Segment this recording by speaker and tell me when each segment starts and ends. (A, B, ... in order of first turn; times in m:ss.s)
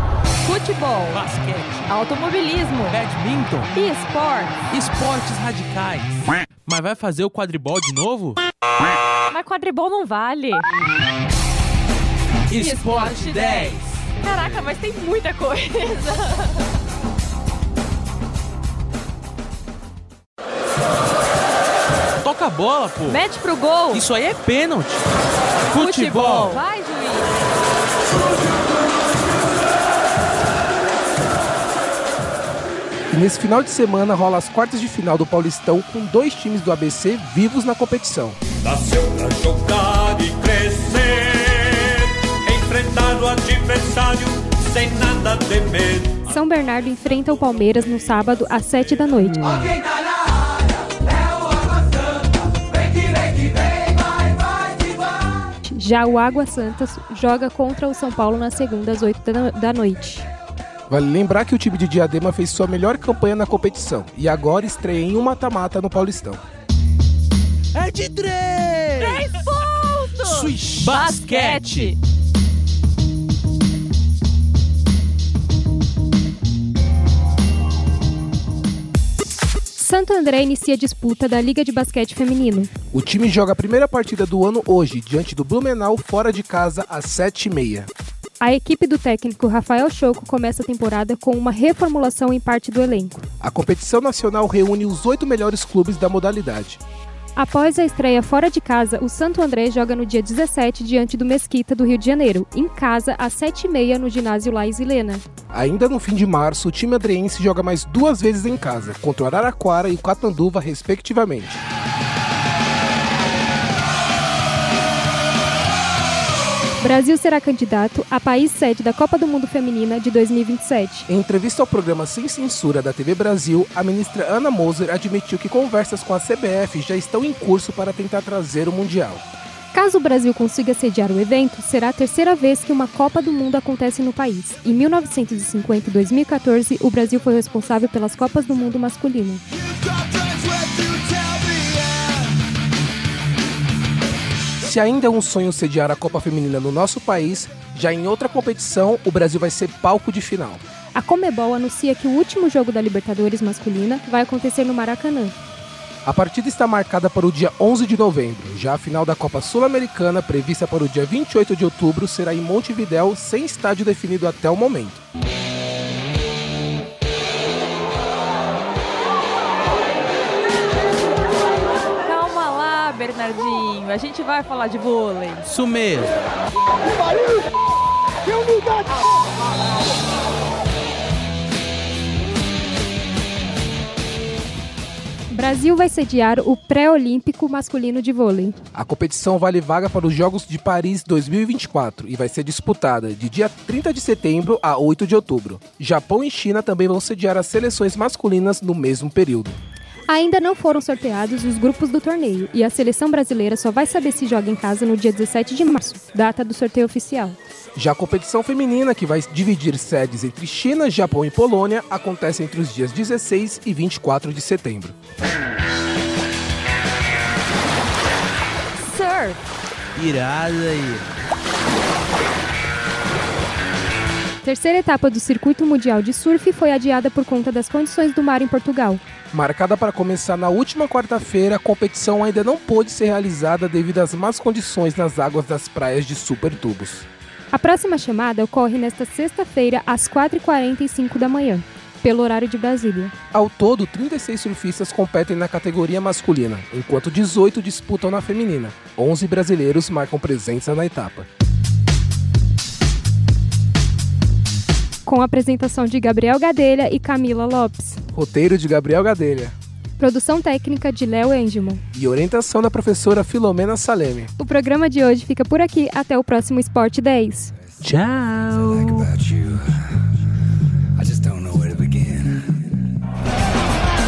0:00.4-0:01.3 A
0:01.1-0:01.9 B
0:01.9-0:03.0 A
0:02.9-0:03.8 B
0:03.7-0:04.6 A
0:04.7-0:08.4 B
0:09.3-0:10.7 A
0:12.5-0:14.6 B
0:12.5-0:16.6 A
0:22.2-0:23.2 B
0:23.1-0:24.1 A
0:23.9-0:25.1 B
0:25.6-0:27.3 A
0:25.6-0:26.6 B
0:33.1-0:38.4 C
0:38.6-0:46.2 D
0:46.2-0:49.6 E
0:55.6-1:00.3 E
1:00.9-1:06.4 C
1:07.7-1:09.3 B
1:09.0-1:12.0 A
1:10.2-1:11.9 B
1:19.7-1:22.7 E
1:22.9-1:27.9 C
1:28.4-1:33.2 E
1:33.4-1:36.8 C
1:37.4-1:45.2 E
1:45.5-1:51.6 C
1:56.8-2:01.1 E
2:01.1-2:09.2 C
2:09.7-2:19.4 E
2:24.6-2:30.6 C
2:31.0-2:35.4 E
2:36.0-2:45.0 C
2:52.0-2:55.5 A
2:55.5-2:56.1 B
3:05.3-3:08.6 E
3:08.7-3:19.6 C
3:20.1-3:27.4 E
3:27.8-3:35.0 C
3:38.8-3:39.4 A
3:40.0-3:41.1 B
3:44.4-3:49.0 E
3:49.3-3:57.1 C
3:57.5-4:03.1 E
4:03.3-4:11.3 C
4:15.0-4:18.0 E
4:18.1-4:19.5 C
4:20.0-4:21.8 E
4:21.9-4:24.3 C
4:24.4-4:27.5 E
4:27.9-4:29.1 B
4:28.7-4:29.8 F
4:31.0-4:32.5 F